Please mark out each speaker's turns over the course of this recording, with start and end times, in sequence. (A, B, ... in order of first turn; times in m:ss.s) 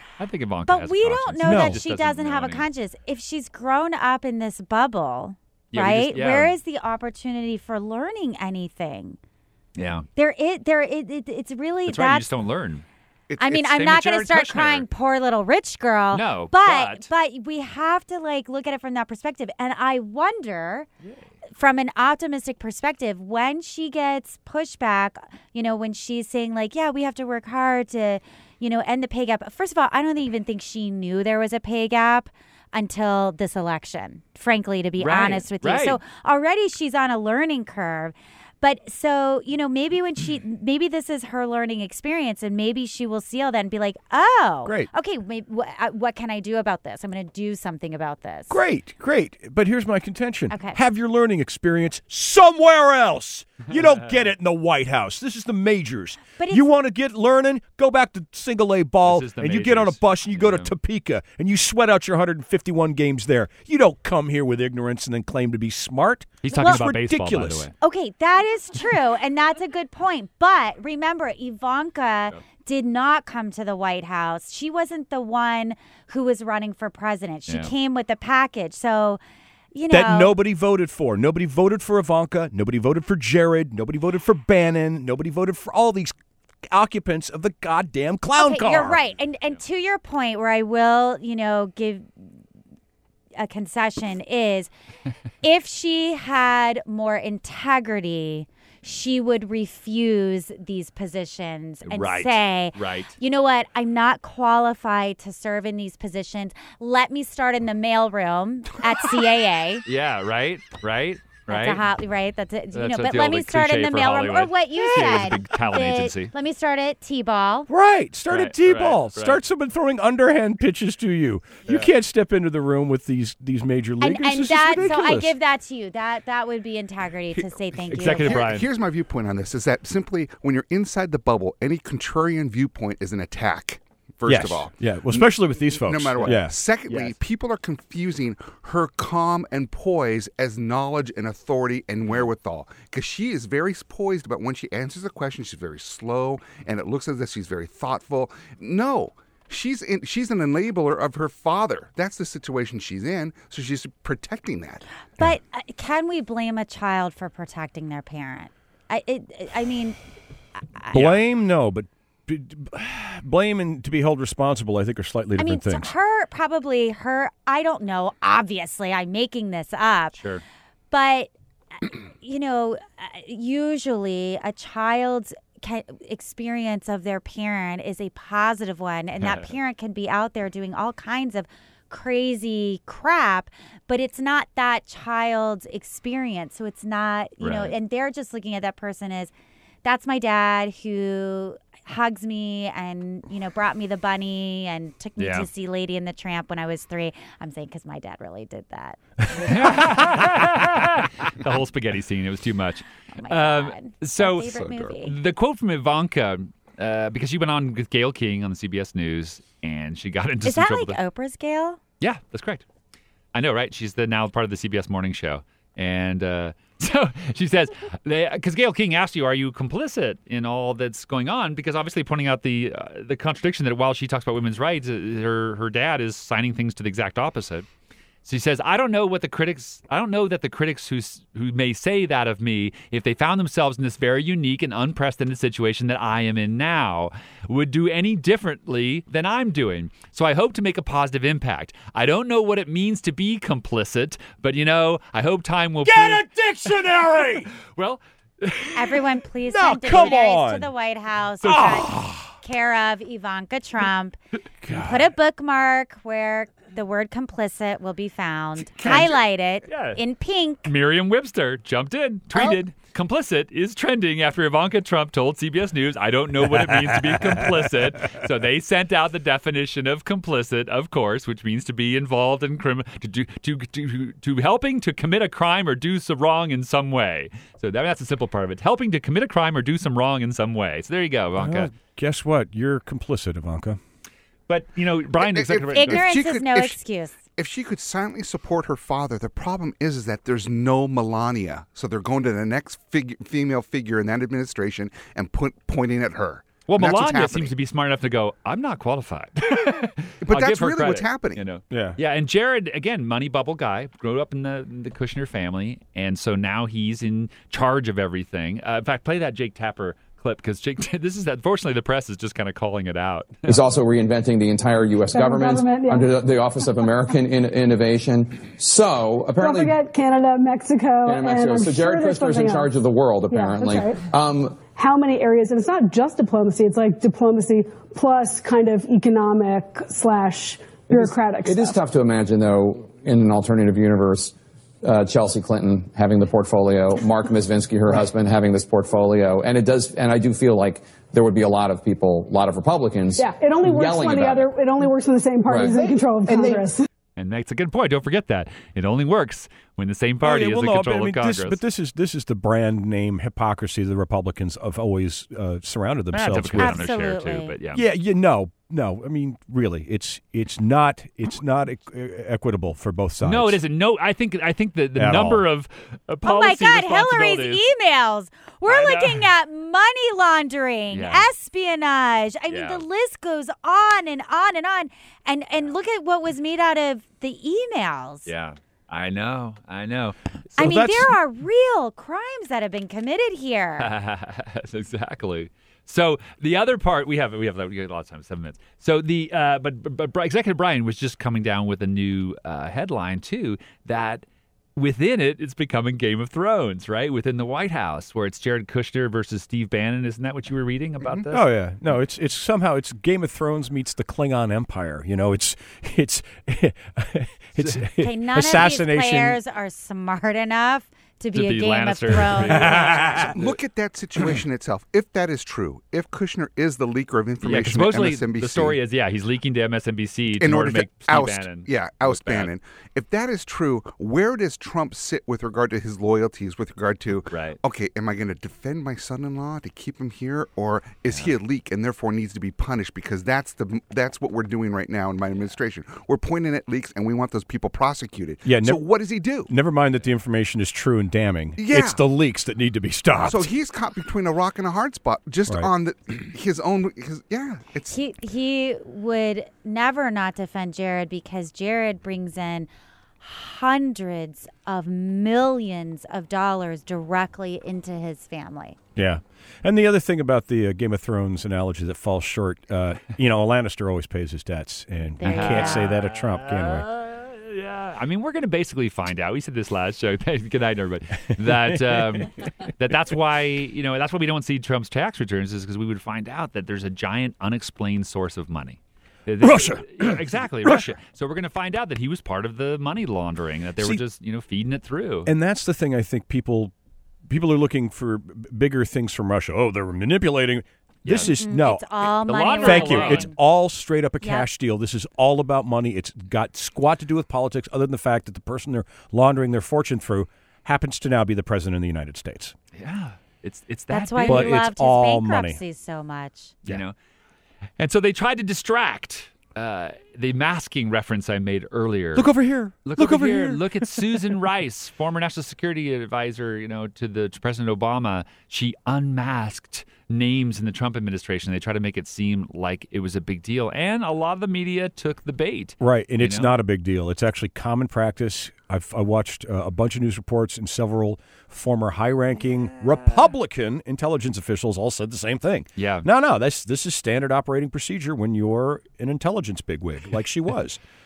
0:00.2-0:02.7 A
0:00.7-0:09.2 B
0:01.4-0:01.8 C
0:05.7-0:06.6 A
0:09.8-0:10.1 A
0:10.2-0:12.3 B
0:11.9-0:12.8 A
0:13.4-0:20.9 B
0:13.4-0:14.9 A
0:16.1-0:17.1 A
0:21.6-0:48.6 B
0:35.0-0:36.0 A
0:48.5-1:07.7 C
0:50.5-0:50.8 B
0:56.4-0:56.7 B
0:59.0-1:00.7 A
1:06.4-1:07.7 A
1:06.6-1:06.8 B
1:07.8-1:19.2 B
1:19.7-1:20.4 B
1:19.9-1:26.2 C
1:26.7-1:29.0 C
1:28.4-1:32.1 B
1:33.4-1:34.7 B
1:35.4-1:49.8 B
1:41.9-1:43.2 A
1:49.9-1:51.8 A
1:51.5-1:57.7 B
1:52.7-1:56.3 A
1:57.7-2:05.4 C
1:58.3-1:59.4 A
2:04.0-2:08.4 B
2:07.9-2:08.7 A
2:08.1-2:34.8 D
2:14.2-2:16.6 C
2:16.2-2:17.2 A
2:35.2-2:40.0 B
2:40.8-2:41.0 B
2:40.9-2:45.9 C
2:45.4-2:50.2 B
2:50.2-2:50.4 A
2:50.9-3:09.3 B
2:59.2-2:59.5 A
3:07.4-3:07.7 A
3:09.8-3:19.0 B
3:15.2-3:15.5 A
3:19.4-3:31.0 A
3:23.2-3:25.1 B
3:30.4-3:31.8 B
3:32.0-3:32.6 A
3:33.3-3:47.7 A
3:48.2-4:06.3 A
4:05.8-4:07.5 C
4:07.6-4:09.0 A
4:08.8-4:14.2 B
4:09.5-4:10.7 C
4:11.4-4:12.3 C
4:14.6-4:15.1 C
4:14.7-4:20.7 B
4:18.8-4:19.1 A
4:19.7-4:20.0 A
4:20.6-4:41.7 A
4:41.4-4:43.8 C
4:44.5-4:46.2 A
4:45.2-4:46.8 D
4:45.7-4:47.2 B
4:47.4-4:57.5 D
4:56.7-5:13.4 A
5:00.2-5:01.4 D
5:01.7-5:02.0 C
5:13.5-5:19.8 E
5:15.1-5:16.1 F
5:19.4-5:22.7 F
5:21.0-5:24.6 E
5:23.3-5:24.0 F
5:24.7-5:31.8 F
5:30.9-5:44.6 E
5:43.2-5:46.8 F
5:45.5-5:45.8 E
5:47.2-5:51.6 A
5:50.2-5:56.9 C
5:56.1-5:57.8 A
5:56.6-5:57.5 B
5:57.7-6:03.6 C
6:03.2-6:07.6 A
6:05.0-6:05.4 C
6:06.2-6:18.3 B
6:08.7-6:09.3 A
6:10.9-6:11.3 A
6:12.5-6:12.8 A
6:18.3-6:20.2 A
6:20.6-6:21.2 C
6:20.6-6:23.9 B
6:23.8-6:34.2 A
6:34.8-6:41.5 A
6:41.3-6:49.4 C
6:48.0-6:53.3 B
6:51.3-6:53.4 A
6:52.2-6:53.4 C
6:53.3-6:58.8 D
6:57.4-7:02.5 A
7:00.4-7:19.5 D
7:07.3-7:07.6 A
7:18.4-7:18.8 C
7:19.5-7:23.5 C
7:21.6-7:22.0 D
7:23.2-7:28.0 D
7:27.9-7:32.7 B
7:33.2-7:38.8 B
7:39.0-7:46.9 C
7:45.2-7:46.0 B
7:45.2-8:05.3 A
7:51.4-7:52.3 C
7:59.4-8:00.8 C
8:05.3-8:06.7 C
8:07.3-8:11.9 C
8:11.1-8:11.3 A
8:11.2-8:13.4 B
8:12.3-8:13.3 A
8:12.6-8:22.6 C
8:14.2-8:14.5 B
8:22.8-8:24.6 A
8:23.9-8:26.6 B
8:24.2-8:25.6 C
8:26.7-8:26.9 A
8:27.8-8:32.3 A
8:32.2-8:34.0 C
8:32.8-8:46.5 A
8:45.8-9:00.8 C
8:55.8-8:56.1 A